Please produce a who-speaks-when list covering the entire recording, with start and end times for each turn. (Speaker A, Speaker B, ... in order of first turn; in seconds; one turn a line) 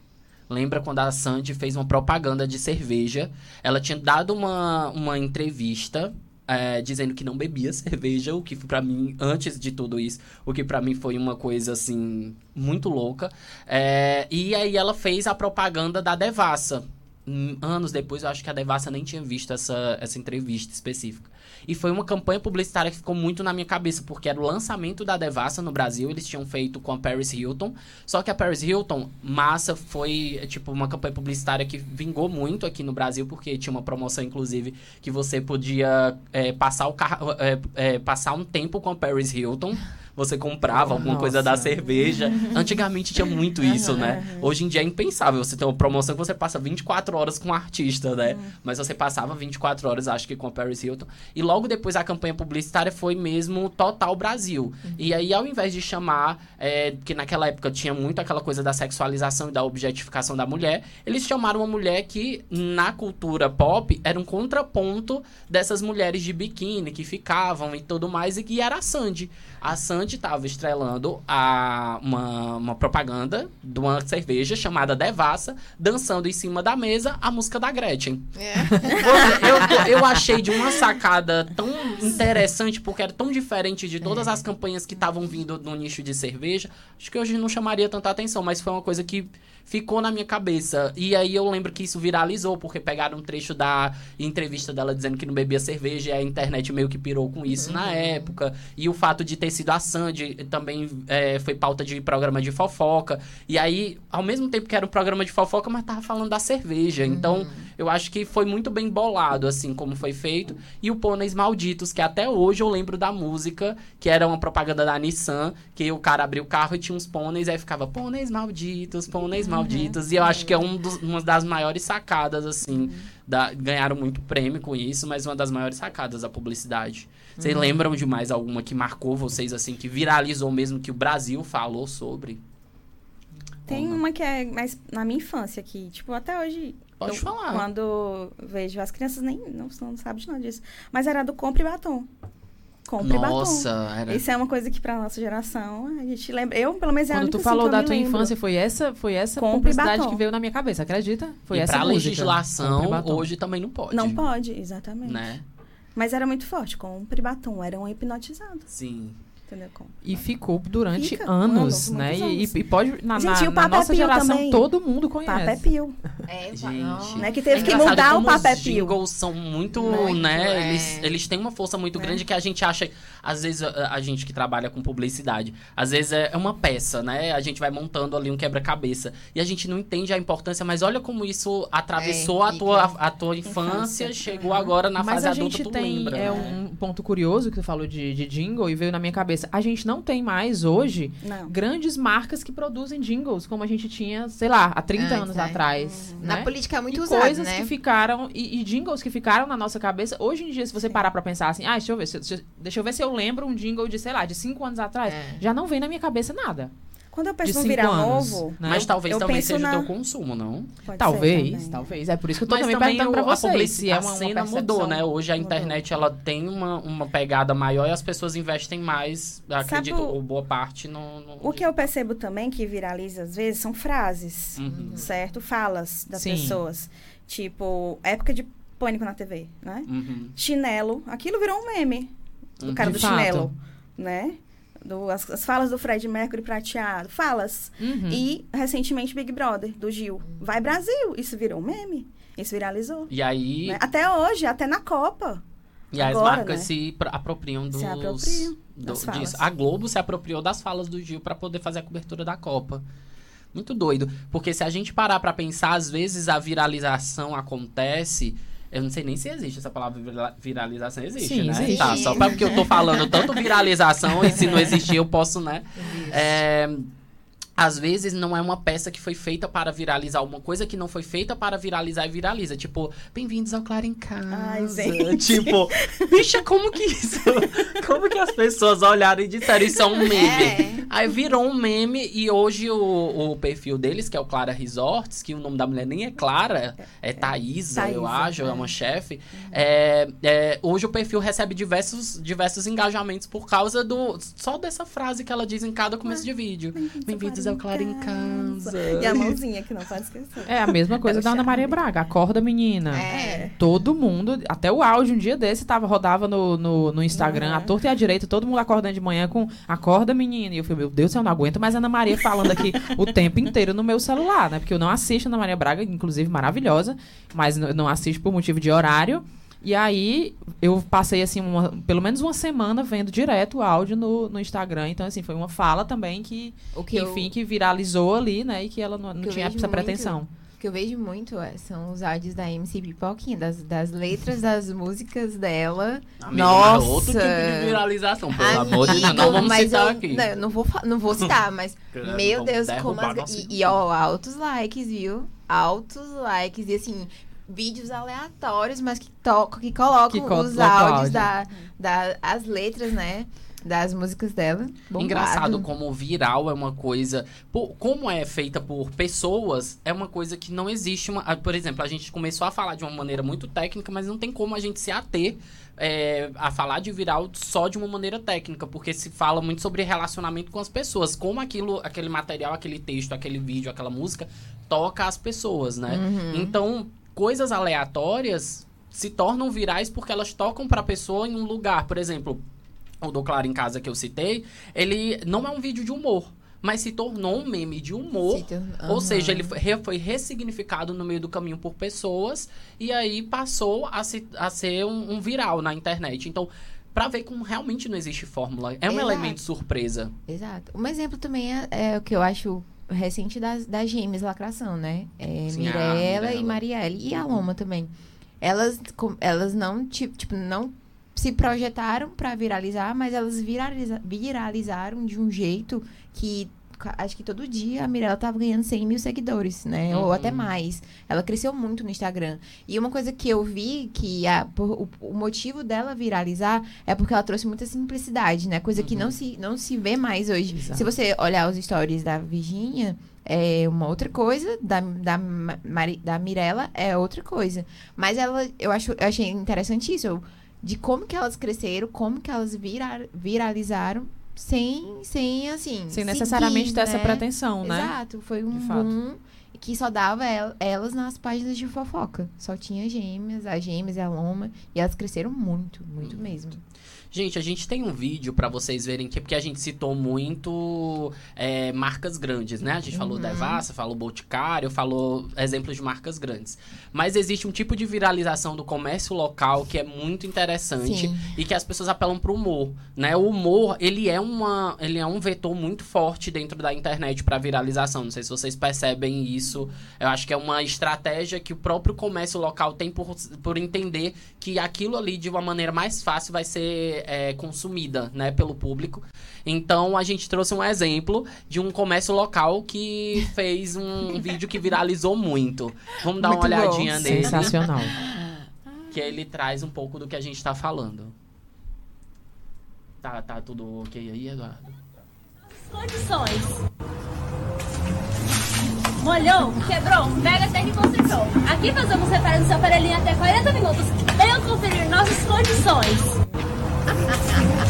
Speaker A: 0.5-132.4
Speaker B: 40.7-41.9
Speaker C: 42.0-42.6
Speaker C: 43.6-44.5
Speaker D: 78.3-80.0
Speaker D: 84.0-84.4
Speaker D: 97.5-98.3
Speaker D: 107.0-107.7
Speaker C: 119.5-120.5
Speaker C: 122.7-123.0
Speaker D: 127.4-127.8
Speaker A: 133.7-134.0
Speaker C: 133.7-142.1
Speaker A: 137.0-137.7
Speaker C: 142.9-148.3
Speaker A: 143.0-144.2
Speaker B: 147.1-153.3
Speaker C: 149.4-150.2
Speaker A: 151.5-154.2
Speaker C: 153.9-155.2
Speaker A: 155.0-155.4
Speaker C: 155.9-158.7
Speaker A: 158.7-159.2
Speaker C: 159.5-159.9
Speaker B: 160.0-165.6
Speaker C: 161.0-162.6
Speaker C: 163.1-164.7
Speaker C: 165.2-166.0
Speaker D: 166.3-168.1
Speaker A: 166.5-186.5
Speaker C: 167.2-168.9
Speaker D: 169.8-171.1
Speaker C: 169.8-170.2
Speaker C: 171.9-172.2
Speaker D: 181.9-182.9
Speaker C: 183.4-184.7
Speaker B: 185.0-206.7
Speaker D: 186.2-186.6
Speaker C: 191.2-191.5
Speaker D: 194.9-195.6
Speaker C: 195.8-196.3
Speaker D: 196.2-197.7
Speaker D: 205.1-205.4
Speaker C: 207.1-209.9
Speaker B: 207.4-208.9
Speaker A: 208.6-210.7
Speaker C: 210.8-211.9
Speaker B: 210.9-215.0
Speaker A: 212.4-221.7
Speaker C: 215.4-215.8
Speaker C: 219.7-220.2
Speaker C: 221.4-243.1
Speaker A: 224.6-225.1
Speaker D: 224.7-225.1
Speaker B: 226.1-226.6
Speaker A: 229.9-230.3
Speaker A: 232.6-233.1
Speaker B: 232.8-233.5
Speaker B: 237.8-238.2
Speaker A: 243.1-243.8
Speaker C: 243.7-245.4
Speaker A: 245.9-252.8
Speaker C: 246.0-246.7
Speaker C: 247.7-249.5
Speaker A: 253.5-266.9
Speaker B: 261.2-262.0
Speaker D: 261.6-263.4
Speaker D: 265.8-266.4
Speaker A: 267.6-299.4
Speaker C: 274.3-275.9
Speaker D: 280.1-280.8
Speaker B: 287.8-288.3
Speaker C: 296.8-301.8
Speaker B: 300.4-330.3
Speaker D: 302.9-303.5
Speaker C: 303.1-303.5
Speaker C: 307.1-307.7
Speaker D: 326.7-327.3
Speaker D: 329.2-337.8
Speaker A: 336.2-340.3
Speaker D: 338.4-355.7
Speaker A: 341.9-343.8
Speaker B: 350.1-351.3
Speaker A: 354.9-382.4
Speaker D: 375.9-376.6
Speaker A: 383.0-400.1
Speaker D: 388.3-389.5
Speaker D: 398.9-399.4
Speaker D: 400.3-456.6
Speaker A: 405.5-406.6
Speaker A: 419.9-420.5
Speaker A: 428.8-429.1
Speaker B: 445.9-447.9
Speaker B: 448.5-448.9
Speaker A: 457.1-497.5
Speaker D: 462.9-463.6
Speaker D: 470.8-471.3
Speaker D: 496.2-498.5
Speaker B: 496.3-497.9
Speaker A: 498.9-501.1
Speaker A: 503.0-504.7
Speaker E: 505.6-506.6
Speaker E: 509.0-516.2